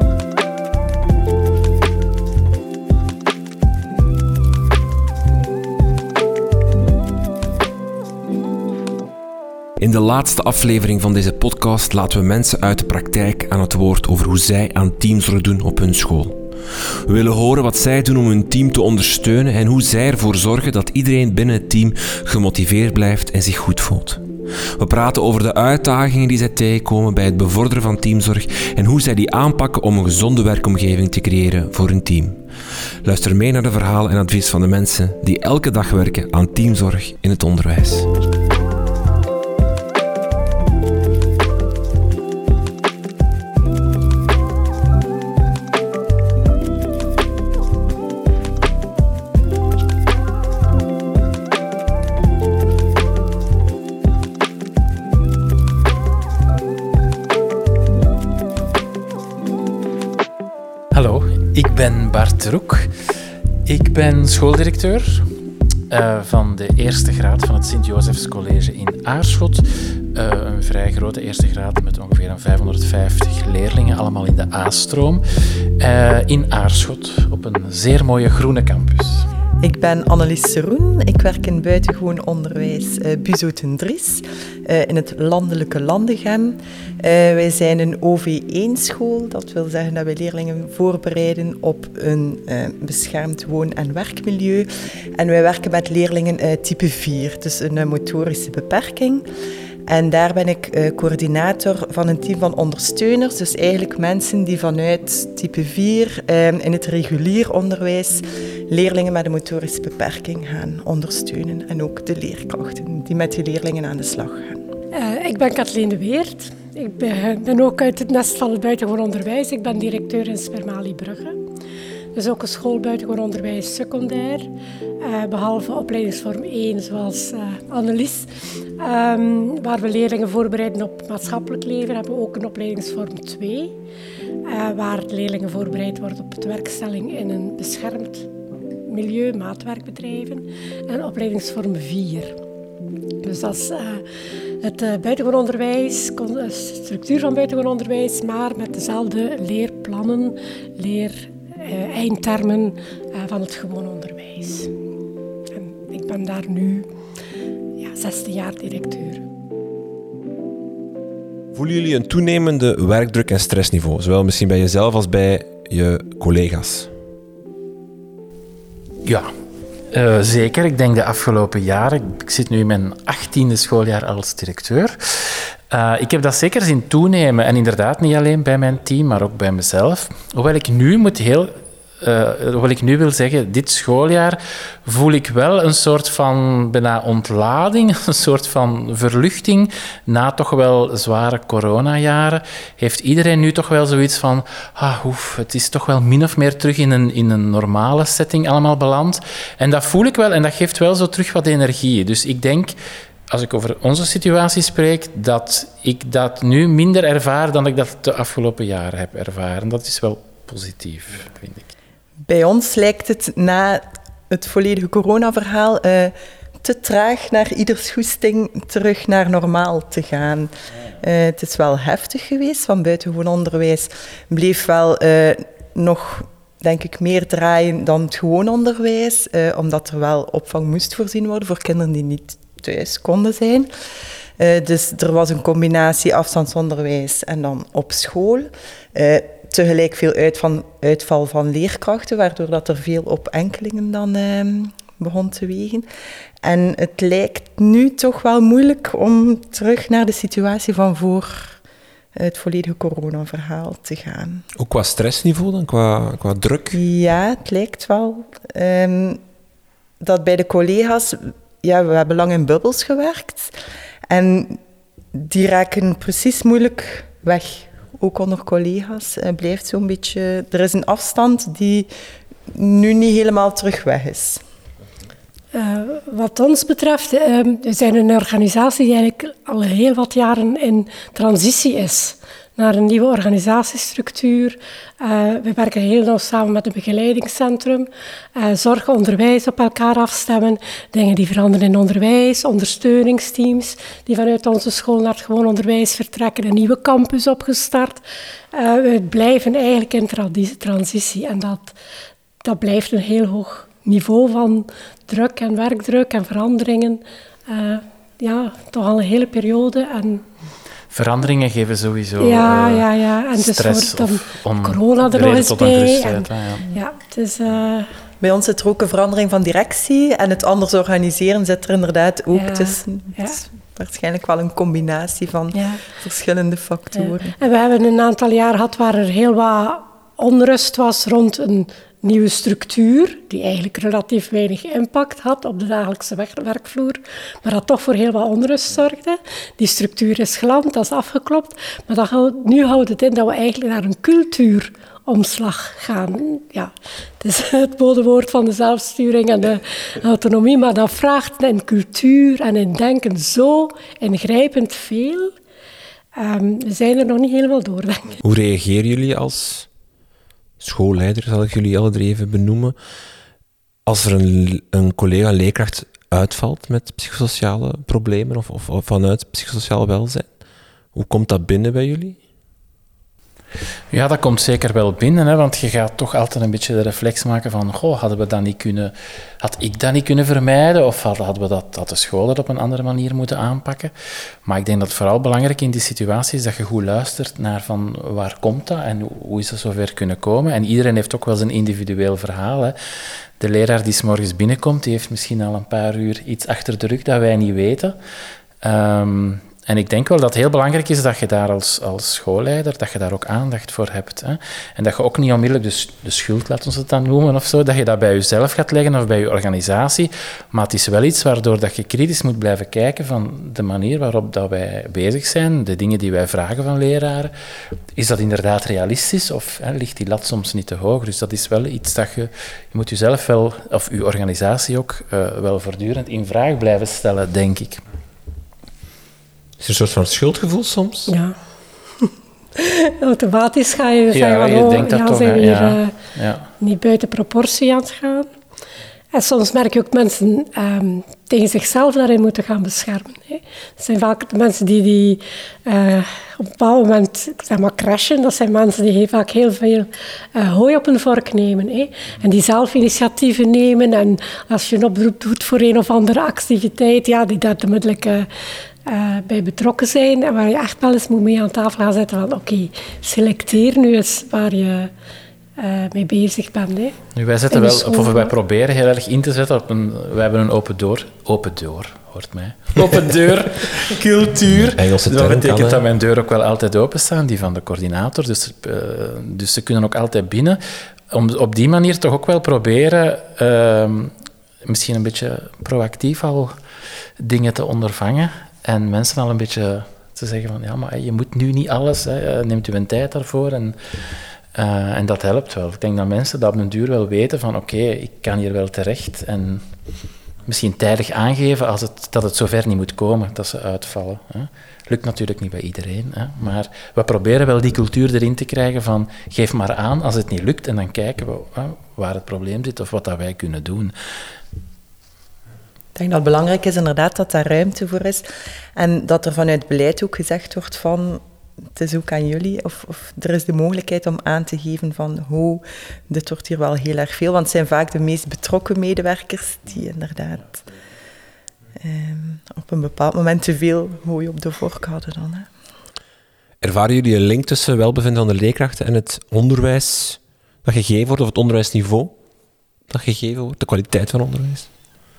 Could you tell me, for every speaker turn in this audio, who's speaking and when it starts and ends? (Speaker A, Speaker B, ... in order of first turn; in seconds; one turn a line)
Speaker A: 9.8-32.5
Speaker A: 33.0-38.1
Speaker B: 60.9-62.9
Speaker B: 63.7-65.3
Speaker B: 65.9-75.2
Speaker B: 75.8-79.3
Speaker C: 79.6-99.2
Speaker C: 99.9-114.6
Speaker D: 114.9-121.4
Speaker D: 122.1-124.5
Speaker D: 125.0-133.8
Speaker D: 134.5-138.3
Speaker D: 138.9-142.4
Speaker D: 143.2-144.1
Speaker D: 144.6-154.7
Speaker D: 155.5-156.9
Speaker D: 157.8-159.2
Speaker A: 161.5-166.9
Speaker B: 169.9-202.8
Speaker B: 203.3-211.7
Speaker C: 212.3-233.7
Speaker C: 234.4-245.9
Speaker C: 246.4-251.6
Speaker C: 252.2-254.5
Speaker A: 254.6-256.8
Speaker C: 256.7-259.2
Speaker C: 260.0-263.5
Speaker C: 264.1-264.6
Speaker C: 265.1-271.9
Speaker C: 272.5-274.4
Speaker D: 275.5-298.0
Speaker D: 298.5-301.8
Speaker D: 302.4-310.2
Speaker B: 310.9-316.6
Speaker D: 312.2-317.9
Speaker C: 318.2-327.4
Speaker D: 322.4-323.4
Speaker D: 325.5-325.9
Speaker D: 327.0-355.4
Speaker D: 356.2-358.2
Speaker A: 358.2-359.7
Speaker A: 360.6-362.8
Speaker A: 363.9-370.3
Speaker A: 370.9-372.2
Speaker B: 373.9-383.9
Speaker B: 384.4-392.8
Speaker B: 393.4-398.0
Speaker B: 398.6-417.3
Speaker B: 418.0-427.8
Speaker A: 429.6-431.1
Speaker D: 431.1-431.4
Speaker D: 432.0-436.0
Speaker B: 434.1-436.5
Speaker D: 436.6-438.3
Speaker D: 439.1-458.3
Speaker D: 458.9-464.9
Speaker D: 465.6-467.0
Speaker B: 467.1-480.6
Speaker D: 467.5-468.3
Speaker A: 474.5-475.9
Speaker B: 481.1-486.6
Speaker B: 487.2-493.8
Speaker B: 494.6-499.6
Speaker B: 500.5-513.9
Speaker C: 516.0-530.6
Speaker C: 531.8-535.5
Speaker A: 536.6-542.1
Speaker A: 542.9-544.7